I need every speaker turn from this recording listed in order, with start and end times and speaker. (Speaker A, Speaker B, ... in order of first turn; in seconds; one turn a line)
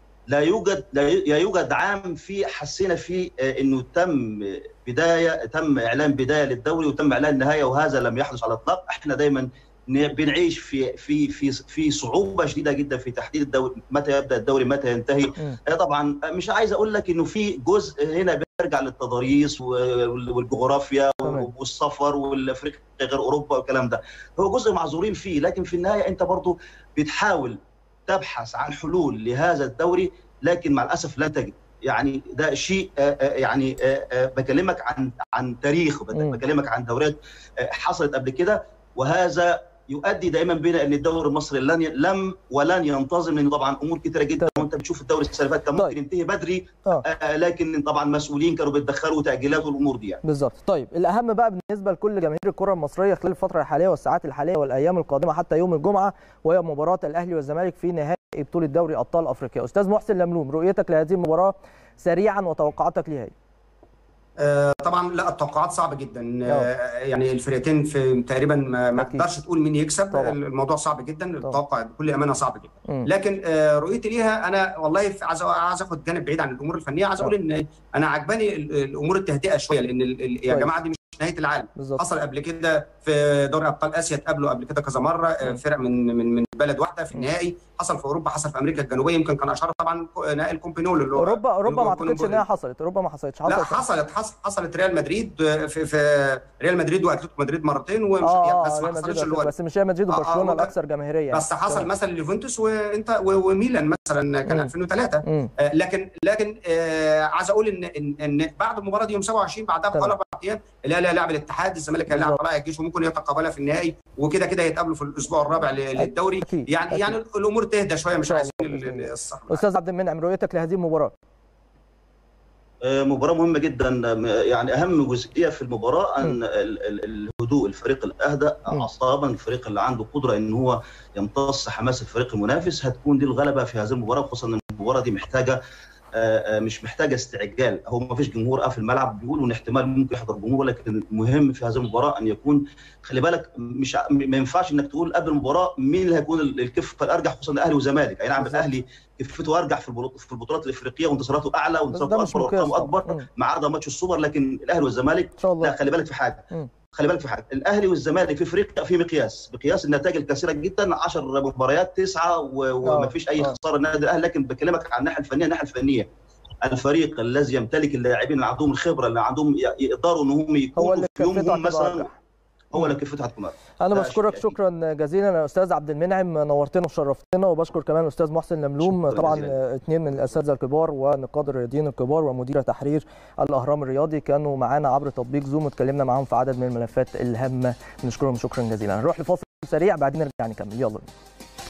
Speaker A: 0.3-50.2
Speaker B: 21.2-21.5
Speaker B: 50.2-63.3
Speaker C: 64.4-92.4
Speaker B: 69.0-69.2
Speaker B: 81.8-82.0
Speaker B: 91.2-93.8
Speaker C: 93.5-99.5
Speaker B: 98.2-101.8
Speaker C: 100.1-100.7
Speaker C: 101.3-119.6
Speaker B: 105.2-105.5
Speaker B: 112.1-112.4
Speaker B: 116.0-117.1
Speaker B: 118.2-121.1
Speaker A: 122.8-135.6
Speaker A: 136.1-166.1
Speaker B: 148.4-148.7
Speaker B: 151.9-153.3
Speaker B: 155.4-155.7
Speaker B: 162.8-163.5
Speaker A: 166.6-172.1
Speaker B: 170.8-172.1
Speaker A: 172.7-174.5
Speaker B: 173.8-191.1
Speaker A: 178.8-179.5